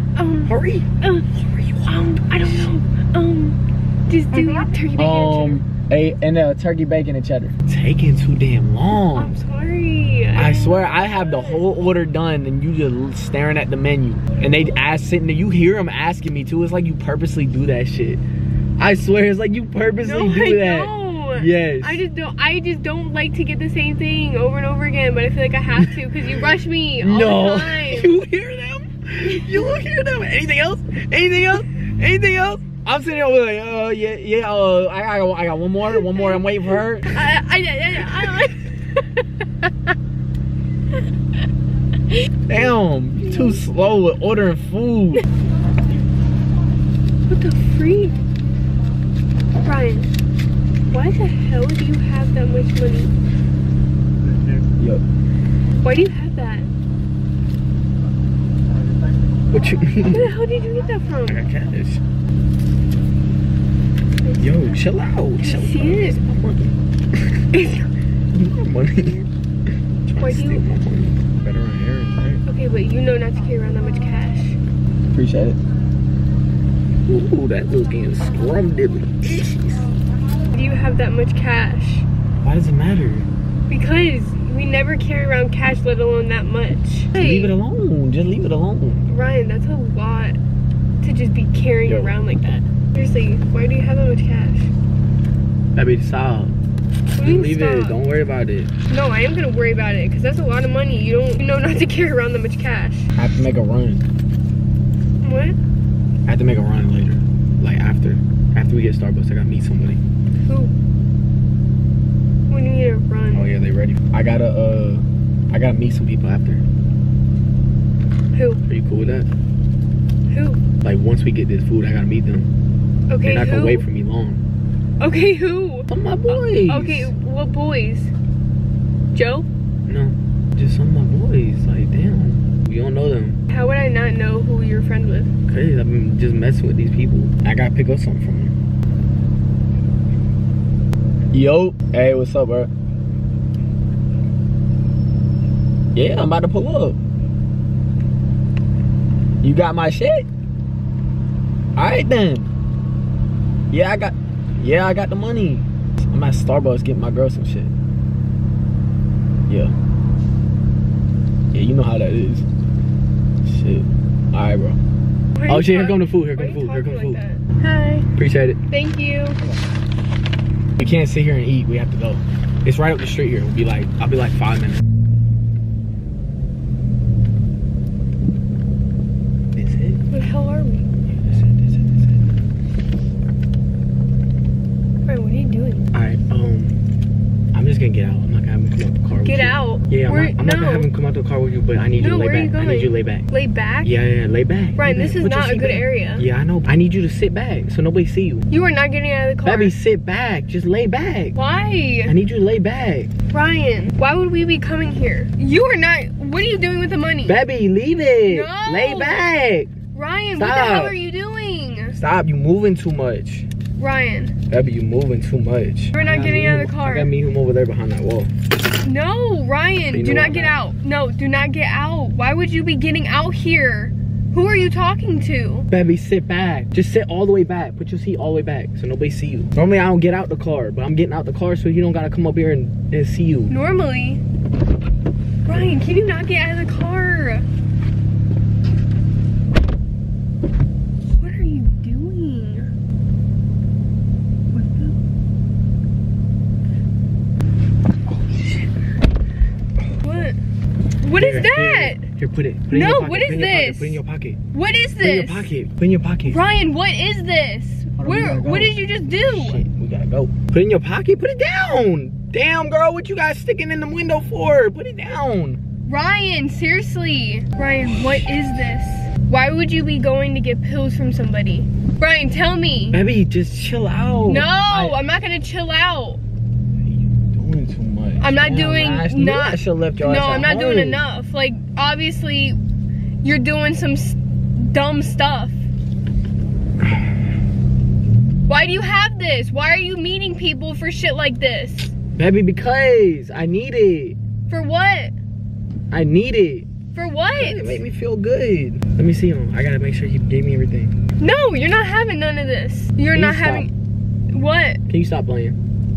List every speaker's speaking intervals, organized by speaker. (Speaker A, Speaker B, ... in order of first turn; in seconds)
Speaker A: 0.1-5.6, 9.1-11.6, 14.3-14.8, 20.0-28.1, 29.3-29.8, 36.0-36.5, 37.1-39.9, 42.1-42.6, 43.3-43.6, 47.3-48.2, 49.6-50.1, 50.9-53.1, 55.8-56.7, 60.1-61.4, 64.2-64.8, 65.4-66.2, 67.5-67.9, 70.2-70.6, 72.5-74.6, 80.5-82.1, 83.7-87.5, 89.1-90.4, 91.0-94.7, 97.1-98.0, 98.9-103.1, 105.2-105.6, 110.4-110.7, 112.5-113.5, 118.3-118.6, 120.3-120.6, 123.1-123.8, 125.0-128.1, 129.1-129.5, 133.5-135.3, 165.3-168.1, 168.7-169.4, 180.1-180.9, 185.1-185.9, 189.2-190.9, 192.0-193.9, 194.8-196.2, 198.5-199.7, 201.3-202.1, 203.3-207.4, 208.3-209.3, 209.9-212.0, 213.8-214.3, 215.9-217.1, 218.8-225.7, 233.5-234.2, 235.4-237.4, 241.2-242.7, 244.5-245.0, 250.0-250.4, 251.0-252.1, 252.7-254.0, 254.5-255.5, 256.2-259.6, 265.9-273.0, 274.2-276.2, 278.2-282.6, 283.2-285.6, 288.5-291.9, 294.5-295.1, 296.9-297.8, 301.2-303.7, 304.3-304.8
Speaker B: 0.5-0.9, 5.0-9.3, 10.3-18.2, 18.8-22.0, 25.8-37.1, 42.5-45.2, 54.6-55.0, 59.5-60.4, 61.2-62.0, 64.4-66.8, 68.3-69.3, 70.1-72.4, 75.1-75.6, 77.1-79.9, 82.4-83.3, 87.1-89.1, 91.9-92.2, 95.8-96.5, 97.2-98.7, 103.2-104.0, 106.2-110.0, 113.3-116.6, 118.7-119.3, 120.8-122.5, 123.2-124.4, 125.9-127.1, 129.9-133.4, 135.5-138.6, 141.3-142.7, 145.9-147.0, 149.4-150.3, 151.8-152.5, 153.7-157.7, 159.5-159.8, 161.5-162.4, 163.4-164.8, 165.4-167.2, 168.2-168.6, 170.8-174.8, 179.5-180.1, 181.1-182.3, 185.9-186.8, 187.5-193.2, 193.8-198.5, 199.4-201.3, 202.1-203.1, 207.2-209.7, 210.3-211.0, 211.9-213.5, 214.5-218.3, 219.9-220.6, 225.7-233.5, 235.5-235.8, 251.2-254.4, 255.0-256.4, 258.0-258.7, 259.2-265.6, 272.9-275.0, 276.8-281.0, 292.1-294.2, 295.9-296.7, 297.4-300.9, 303.1-303.7, 304.9-305.6